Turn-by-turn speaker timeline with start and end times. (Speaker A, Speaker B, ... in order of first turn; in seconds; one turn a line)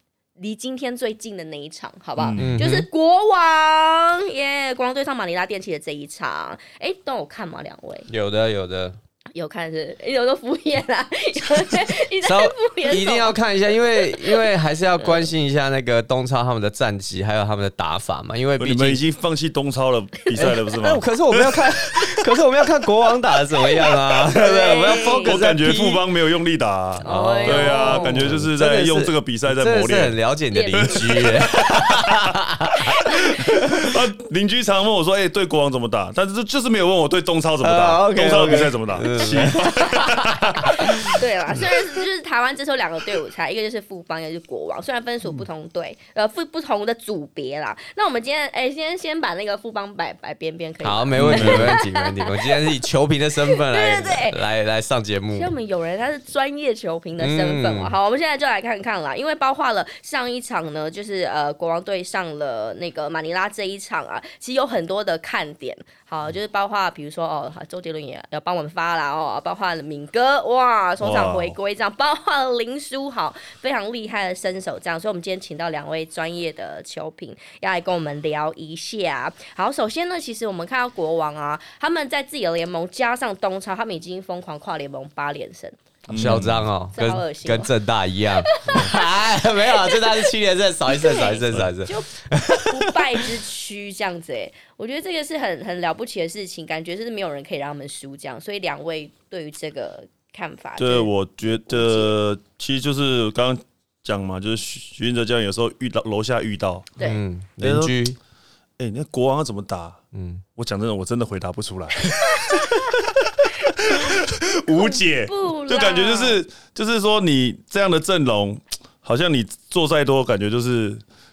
Speaker A: 0.4-8.1
Speaker B: 2.2-2.6
Speaker C: 2.4-2.9
Speaker C: 8.1-9.0
Speaker A: 9.3-13.4
Speaker C: 12.2-19.0
Speaker A: 13.9-14.4
Speaker A: 15.0-15.3
Speaker B: 18.6-22.3
Speaker C: 20.4-26.0
Speaker A: 24.3-25.4
Speaker B: 24.9-30.2
Speaker A: 27.0-28.3
Speaker C: 27.0-34.0
Speaker A: 30.5-31.2
Speaker B: 30.8-32.4
Speaker A: 32.9-33.3
Speaker B: 33.0-41.7
Speaker C: 37.6-41.2
Speaker A: 39.2-52.8
Speaker C: 50.8-55.5
Speaker B: 51.1-51.8
Speaker A: 53.5-54.4
Speaker A: 55.3-87.7
Speaker C: 57.2-57.9
Speaker B: 71.0-71.5
Speaker B: 86.1-86.7
Speaker C: 86.1-93.3
Speaker A: 88.3-90.3
Speaker A: 90.9-102.1
Speaker B: 100.8-107.0
Speaker C: 107.0-108.2
Speaker B: 107.6-108.0
Speaker B: 108.8-110.0
Speaker C: 110.1-110.4
Speaker B: 110.5-121.0
Speaker A: 112.3-112.7
Speaker A: 113.7-114.2
Speaker A: 114.7-116.4